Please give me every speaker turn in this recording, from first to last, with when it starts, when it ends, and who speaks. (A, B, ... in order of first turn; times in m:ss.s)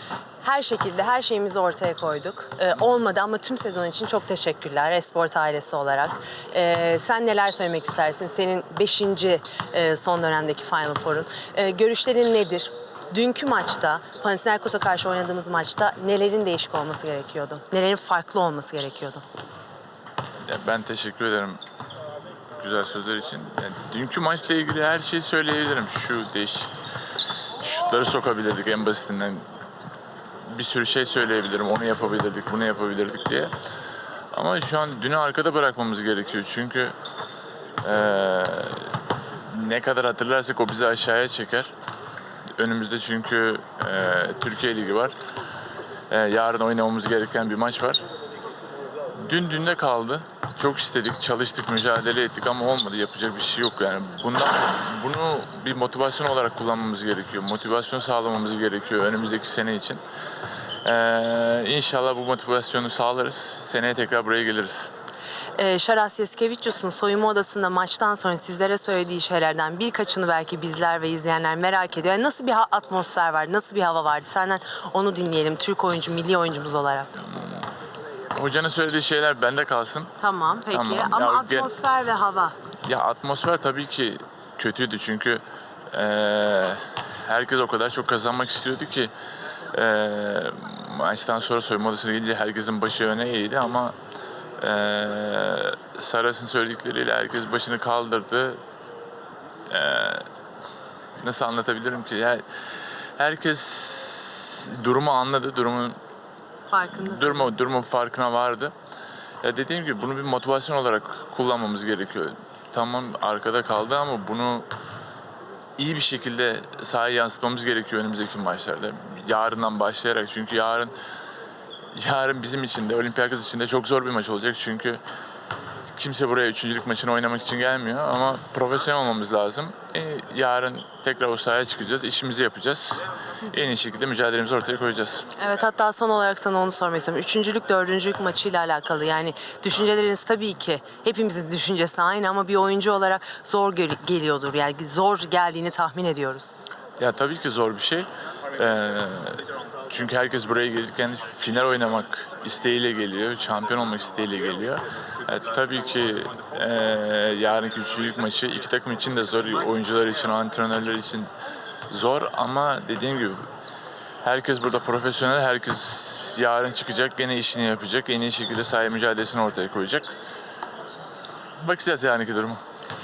0:00.4-0:19.2 A
0:20.5-0:21.6 B
0:22.6-0:26.8 B
0:27.6-0:29.4 B
0:30.5-0:33.5 B
0:34.3-0:37.0 B
0:37.8-0:41.7 B
0:42.6-0:45.2 B
0:46.1-0:48.0 B
0:49.1-1:00.0 B
1:00.8-1:04.9 B
1:05.6-1:17.1 A
1:17.2-1:17.7 B
1:18.3-1:20.1 B
1:20.2-1:22.6 A
1:20.7-1:21.7 B
1:22.9-1:29.1 B
1:29.7-1:34.0 B
1:34.6-1:38.6 B
1:39.7-1:40.3 B
1:41.2-1:42.4 B
1:43.2-1:46.0 B
1:46.7-1:47.5 A
1:46.9-1:48.7 B
1:49.4-1:54.7 B
1:55.8-2:01.0 B
2:01.9-2:05.0 B
2:06.0-2:15.3 B
2:15.4-2:26.5 A
2:27.0-2:41.3 B
2:41.9-2:43.4 B
2:44.2-2:50.2 B
2:51.6-2:52.6 B